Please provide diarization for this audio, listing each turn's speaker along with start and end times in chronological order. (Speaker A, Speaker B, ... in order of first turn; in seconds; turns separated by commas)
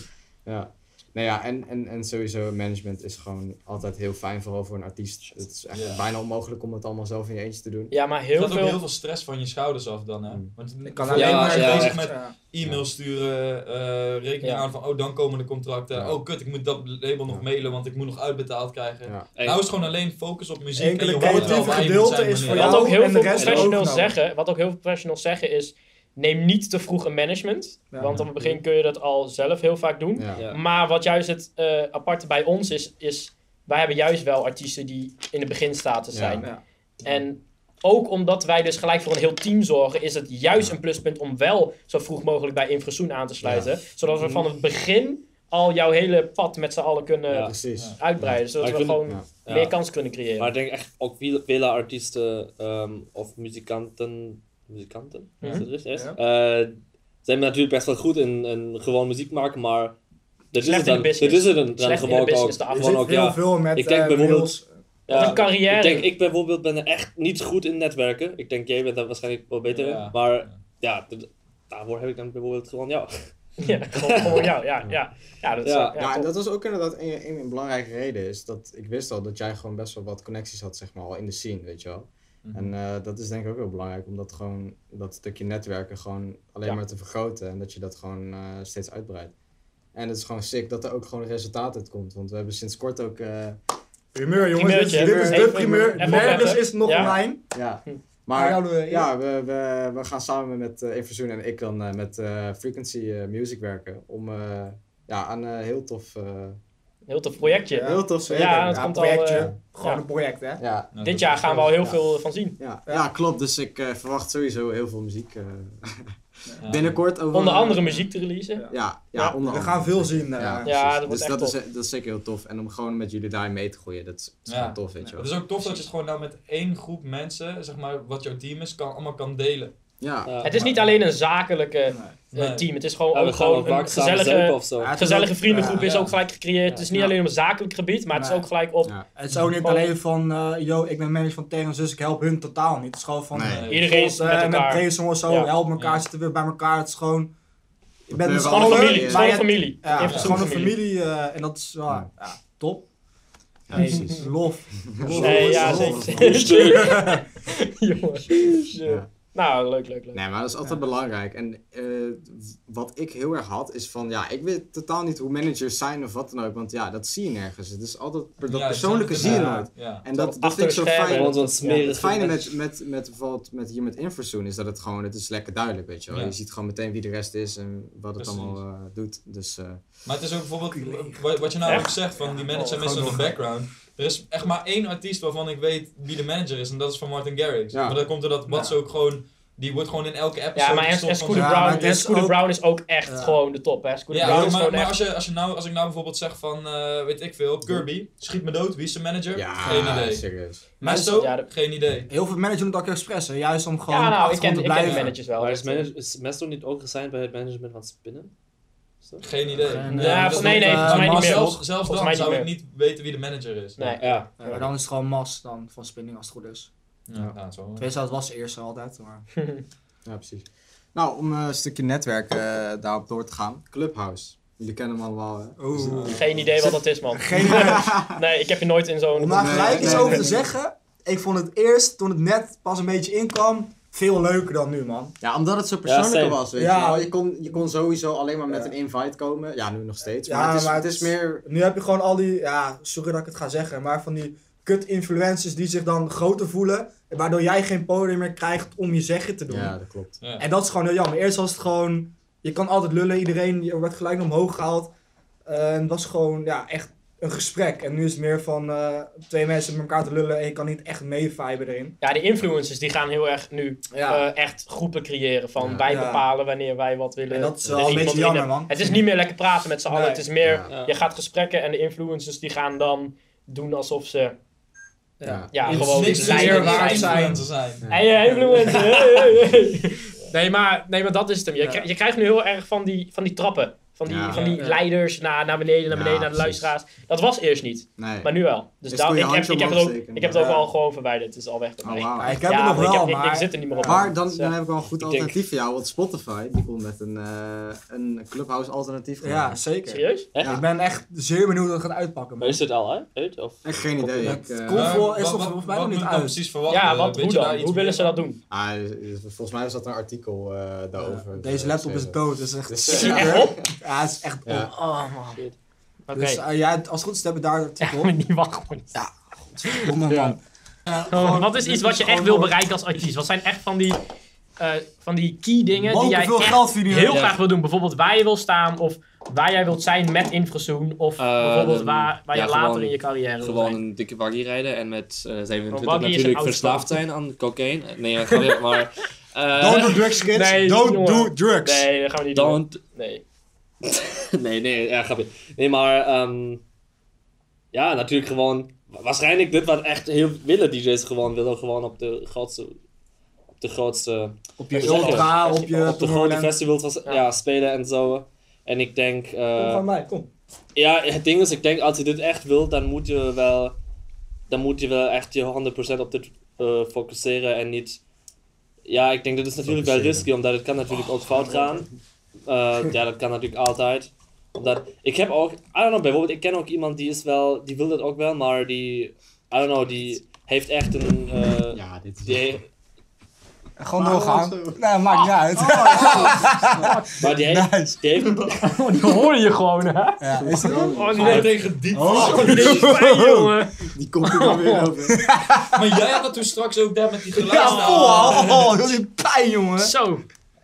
Speaker A: 0.4-7.9, Speaker B: 5.7-6.0, Speaker C: 7.9-8.8, Speaker B: 8.4-22.9, Speaker D: 10.8-12.3, Speaker E: 11.1-12.0, Speaker C: 14.4-14.7, Speaker E: 19.3-19.6, Speaker D: 20.7-24.1, Speaker C: 22.5-36.5, Speaker E: 23.3-23.8, Speaker D: 27.9-28.2, Speaker E: 28.2-28.6, Speaker A: 30.1-30.4, Speaker E: 30.3-30.6, Speaker A: 36.1-36.5, Speaker C: 37.0-50.5, Speaker A: 43.4-43.7, Speaker E: 44.2-44.5, Speaker E: 47.3-47.5, Speaker A: 47.4-48.4, Speaker E: 48.6-49.8, Speaker E: 50.4-60.0, Speaker C: 55.4-55.7, Speaker B: 55.4-55.7, Speaker E: 60.5-73.3, Speaker C: 60.6-63.1, Speaker D: 62.7-64.7, Speaker C: 65.1-66.1, Speaker B: 69.7-70.6, Speaker C: 73.6-76.3, Speaker E: 73.9-74.5, Speaker E: 75.6-76.0, Speaker A: 76.0-89.3, Speaker B: 82.4-82.7, Speaker A: 89.9-93.6, Speaker D: 94.1-97.4, Speaker C: 94.4-97.1, Speaker A: 94.9-106.6, Speaker D: 98.3-99.1, Speaker C: 107.1-110.0, Speaker D: 107.7-110.6, Speaker A: 107.8-109.5, Speaker A: 110.6-110.9, Speaker B: 110.9-111.7, Speaker C: 111.0-112.6, Speaker A: 111.7-112.0, Speaker A: 112.6-118.1, Speaker D: 116.5-116.7, Speaker B: 116.6-117.0, Speaker C: 117.3-119.3, Speaker A: 118.7-125.8, Speaker D: 119.4-120.7, Speaker C: 120.6-121.5, Speaker B: 124.5-129.7, Speaker A: 130.0-130.4, Speaker E: 130.2-130.6, Speaker C: 130.4-138.9, Speaker B: 130.5-131.0, Speaker D: 131.9-132.2, Speaker B: 132.3-132.7, Speaker E: 133.1-134.9, Speaker D: 134.8-135.9, Speaker B: 135.8-136.1, Speaker E: 136.7-137.1, Speaker D: 138.1-138.5, Speaker D: 139.1-147.3, Speaker C: 139.6-139.9, Speaker A: 143.3-143.6, Speaker B: 143.4-143.8, Speaker C: 143.7-145.5, Speaker B: 145.8-146.0, Speaker D: 148.1-152.9, Speaker A: 148.1-149.4, Speaker C: 148.4-150.8, Speaker B: 150.0-150.4, Speaker A: 153.7-156.5, Speaker D: 153.7-157.2, Speaker C: 153.7-154.2, Speaker C: 155.2-160.2, Speaker E: 156.1-157.1, Speaker E: 158.3-158.7, Speaker A: 160.1-179.8, Speaker B: 168.4-170.0, Speaker D: 169.2-169.7, Speaker C: 170.1-171.9, Speaker E: 171.1-172.5, Speaker B: 176.1-176.3, Speaker B: 178.2-178.6, Speaker B: 180.0-191.7, Speaker D: 180.7-183.5, Speaker C: 181.6-181.9, Speaker A: 187.7-188.0, Speaker D: 188.5-188.8, Speaker C: 190.5-194.9, Speaker D: 191.3-192.4, Speaker D: 193.1-193.4, Speaker B: 194.1-200.2, Speaker D: 194.2-194.6, Speaker A: 199.3-200.6, Speaker D: 199.7-199.9, Speaker B: 200.8-202.1, Speaker C: 200.8-201.5, Speaker D: 202.1-205.1, Speaker C: 203.9-205.9, Speaker B: 204.8-205.1, Speaker E: 205.3-208.3, Speaker E: 209.0-209.3, Speaker B: 209.2-214.0, Speaker D: 209.6-211.6, Speaker C: 209.9-212.5, Speaker C: 213.8-214.6, Speaker E: 214.0-214.4, Speaker D: 214.4-216.7, Speaker B: 217.1-217.9, Speaker D: 217.8-219.3, Speaker C: 219.4-219.6, Speaker A: 220.0-226.4, Speaker D: 225.6-227.9, Speaker B: 225.8-226.2, Speaker C: 226.1-230.3, Speaker A: 227.3-228.2, Speaker D: 229.1-235.1, Speaker A: 229.4-230.4, Speaker A: 235.2-241.4, Speaker E: 235.8-236.4, Speaker D: 236.5-237.1, Speaker D: 238.5-238.7, Speaker D: 240.2-249.7, Speaker A: 249.5-250.2, Speaker B: 250.2-250.5, Speaker D: 250.4-254.9, Speaker D: 255.4-261.9, Speaker C: 262.0-274.4, Speaker D: 263.9-264.2, Speaker A: 265.6-265.9, Speaker D: 265.9-266.2, Speaker D: 267.3-269.0, Speaker D: 269.9-270.2, Speaker A: 270.4-270.7, Speaker E: 270.7-270.9, Speaker D: 275.2-277.4, Speaker A: 275.2-275.5, Speaker C: 275.5-277.3, Speaker B: 275.6-277.8, Speaker A: 277.8-278.1, Speaker C: 277.9-294.5, Speaker D: 281.6-281.9, Speaker A: 284.1-284.5, Speaker D: 284.3-284.8, Speaker A: 285.9-286.7, Speaker A: 288.0-288.3, Speaker A: 288.9-290.6, Speaker D: 290.3-290.6, Speaker A: 291.8-292.4, Speaker D: 292.1-294.1, Speaker A: 293.8-299.6, Speaker E: 294.9-295.4, Speaker D: 299.2-302.6, Speaker C: 299.9-300.3, Speaker E: 300.3-300.6, Speaker E: 302.4-304.4, Speaker A: 303.6-305.0, Speaker D: 304.1-306.4, Speaker B: 304.7-308.2, Speaker C: 306.7-308.4, Speaker A: 308.5-313.7, Speaker D: 311.1-314.7, Speaker C: 312.9-313.6, Speaker A: 314.4-314.7, Speaker C: 314.7-315.4, Speaker C: 316.1-316.4, Speaker D: 316.1-318.1, Speaker C: 317.8-318.9, Speaker D: 319.6-322.6, Speaker C: 319.6-319.9, Speaker A: 320.1-320.4, Speaker C: 321.1-324.0, Speaker C: 324.6-333.8, Speaker D: 325.8-327.2, Speaker E: 327.1-327.4, Speaker E: 331.2-340.1, Speaker C: 335.7-337.0, Speaker D: 339.6-341.9, Speaker C: 340.2-343.2, Speaker E: 342.3-342.8, Speaker E: 343.8-346.6, Speaker E: 347.7-352.8, Speaker E: 353.5-359.8, Speaker D: 354.6-356.5, Speaker C: 354.7-355.9, Speaker D: 359.6-360.3, Speaker E: 360.8-363.8, Speaker E: 364.5-368.0, Speaker E: 368.8-371.9, Speaker A: 369.6-370.3, Speaker E: 372.4-382.6, Speaker A: 381.7-382.6, Speaker D: 383.8-388.0, Speaker A: 383.9-387.1, Speaker B: 385.9-386.4, Speaker C: 386.8-387.0, Speaker E: 387.2-388.7, Speaker C: 388.6-391.5, Speaker D: 390.2-391.0, Speaker A: 390.4-391.5, Speaker B: 391.1-392.8, Speaker D: 391.9-393.6, Speaker C: 392.1-394.9, Speaker A: 392.2-392.5, Speaker A: 393.9-395.3, Speaker D: 395.1-395.8, Speaker B: 395.7-398.7, Speaker D: 397.4-399.9, Speaker C: 397.5-398.9, Speaker C: 399.8-400.2